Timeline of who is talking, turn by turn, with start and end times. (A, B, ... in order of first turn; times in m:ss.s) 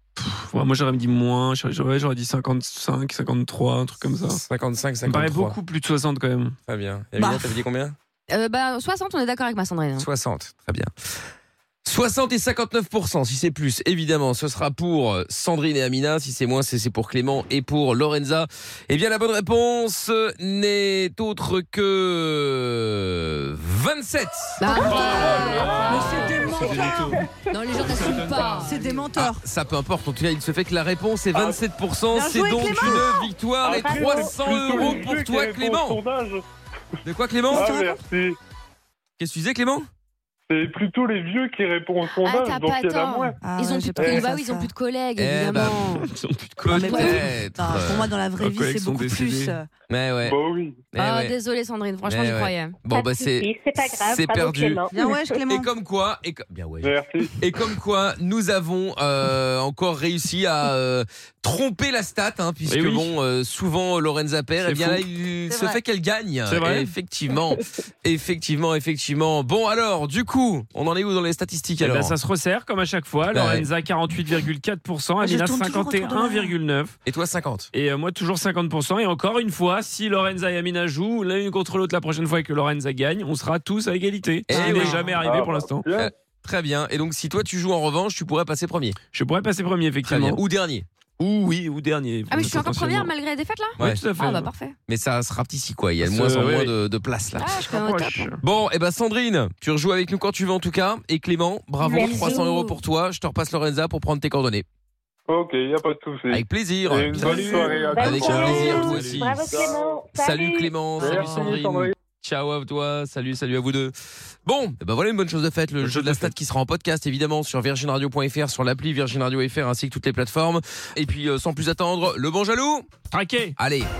0:00.2-0:04.4 A
0:04.2-0:05.6 B
0:05.0-0:06.6 A
0:06.7-0:08.0 B
0:07.2-0:07.6 C
0:08.3-0:10.1 D
0:10.0-0:10.9 B
0:11.8-0:24.6 B
0:24.6-0:26.7 D
0:24.7-0:27.2 C
0:24.7-0:27.2 A
0:27.5-0:28.9 D
0:27.8-0:29.0 A
0:28.6-0:29.4 C
0:29.2-0:36.0 B
0:32.1-0:33.2 C
0:33.6-0:35.1 E
0:33.6-0:36.4 F
0:37.0-0:37.7 B
0:37.5-0:38.4 F
0:37.5-0:38.0 C
0:39.2-0:39.9 B
0:40.5-0:43.4 F
0:42.2-0:46.1 D
0:43.4-0:44.7 C
0:44.0-0:44.3 F
0:45.2-0:45.9 B
0:46.0-0:46.9 A
0:46.6-0:48.1 B
0:46.7-0:49.7 C
0:46.7-0:47.2 D
0:48.4-0:49.6 A
0:49.9-0:50.4 B
0:50.2-0:50.8 F
0:50.9-0:51.3 B
0:51.0-0:52.8 D
0:52.0-0:54.8 B
0:52.9-0:55.4 E
0:54.9-0:55.7 C
0:55.5-1:12.1 B
0:56.8-0:57.3 F
1:02.7-1:03.1 A
1:04.6-1:05.0 A
1:05.5-1:05.8 C
1:06.4-1:06.9 A
1:11.8-1:16.9 A
1:13.3-1:13.7 B
1:15.2-1:16.5 C
1:17.0-1:17.7 B
1:17.7-1:25.9 A
1:24.5-1:25.2 B
1:24.5-1:25.2 D
1:25.2-1:26.1 F
1:25.9-1:29.0 B
1:29.1-1:30.4 A
1:30.0-1:30.9 B
1:31.2-1:33.1 A
1:32.3-1:34.7 D
1:33.8-1:34.0 B
1:33.8-1:34.5 A
1:34.9-1:37.5 B
1:36.0-1:36.7 A
1:37.4-1:38.3 D
1:37.5-1:38.4 A
1:38.4-1:44.6 B
1:41.8-1:42.7 E
1:41.9-1:42.7 D
1:45.3-1:48.8 F
1:46.3-1:49.5 B
1:47.1-1:49.3 A
1:47.2-1:51.1 E
1:50.1-1:53.9 B
1:51.0-1:51.9 F
1:51.1-1:51.5 A
1:54.4-2:02.9 B
1:55.8-1:56.3 A
2:03.1-2:03.6 A
2:03.6-2:03.9 B